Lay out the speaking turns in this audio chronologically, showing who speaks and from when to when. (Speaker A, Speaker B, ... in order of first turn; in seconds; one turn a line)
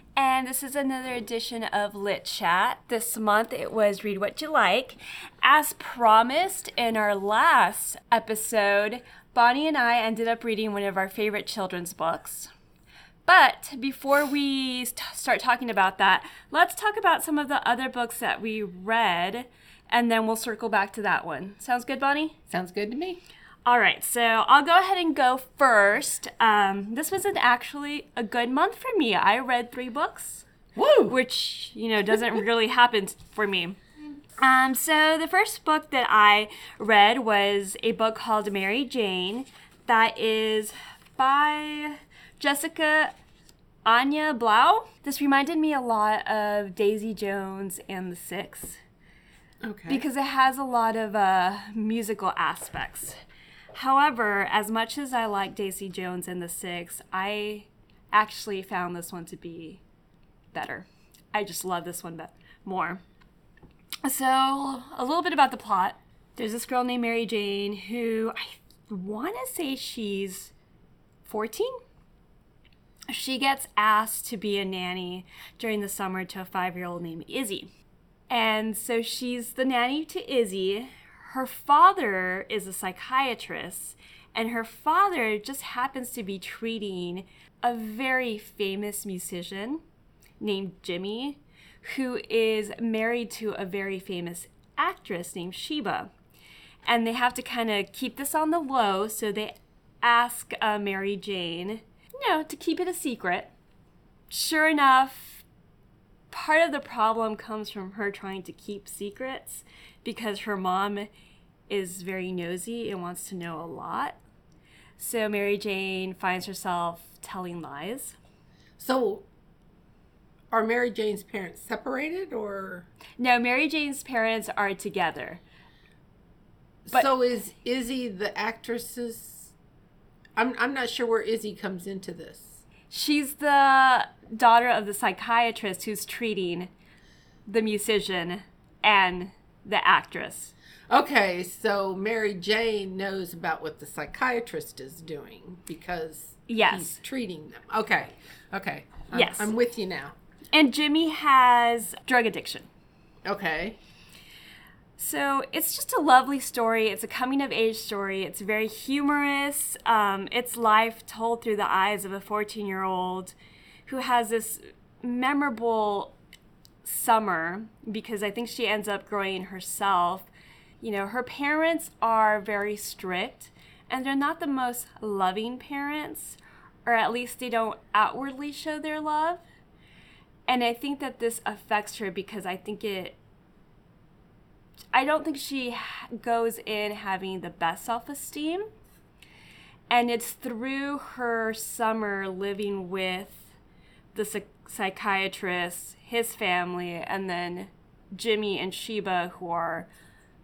Speaker A: 0.1-12.5
Speaker A: 13.3-22.4
Speaker B: 22.5-23.2
Speaker A: 23.6-30.4
Speaker B: 30.8-31.1
Speaker A: 31.1-33.8
Speaker A: 34.4-43.1
Speaker A: 43.8-48.8
Speaker B: 49.6-50.0
Speaker A: 49.9-53.2
Speaker A: 53.7-59.8
Speaker A: 60.5-63.0
Speaker A: 64.0-70.5
Speaker A: 71.2-71.8
Speaker A: 73.1-77.7
Speaker A: 78.3-89.8
Speaker A: 90.4-96.1
Speaker A: 96.9-103.5
Speaker A: 104.3-105.4
Speaker A: 106.3-111.1
Speaker A: 111.7-114.2
Speaker A: 115.0-118.2
Speaker B: 118.8-119.2
Speaker B: 120.5-122.9
Speaker A: 123.2-125.4
Speaker B: 126.9-129.5
Speaker B: 130.4-132.7
Speaker A: 132.9-136.7
Speaker A: 137.5-140.5
Speaker B: 140.9-150.2
Speaker A: 146.5-147.0
Speaker A: 149.1-149.5
Speaker A: 150.5-152.7
Speaker B: 153.2-153.8
Speaker A: 155.0-163.3
Speaker A: 163.9-166.2
Speaker A: 166.8-170.3
Speaker A: 170.8-179.4
Speaker A: 180.5-183.2
Speaker A: 184.9-188.7
Speaker A: 189.9-193.5
Speaker A: 194.1-199.9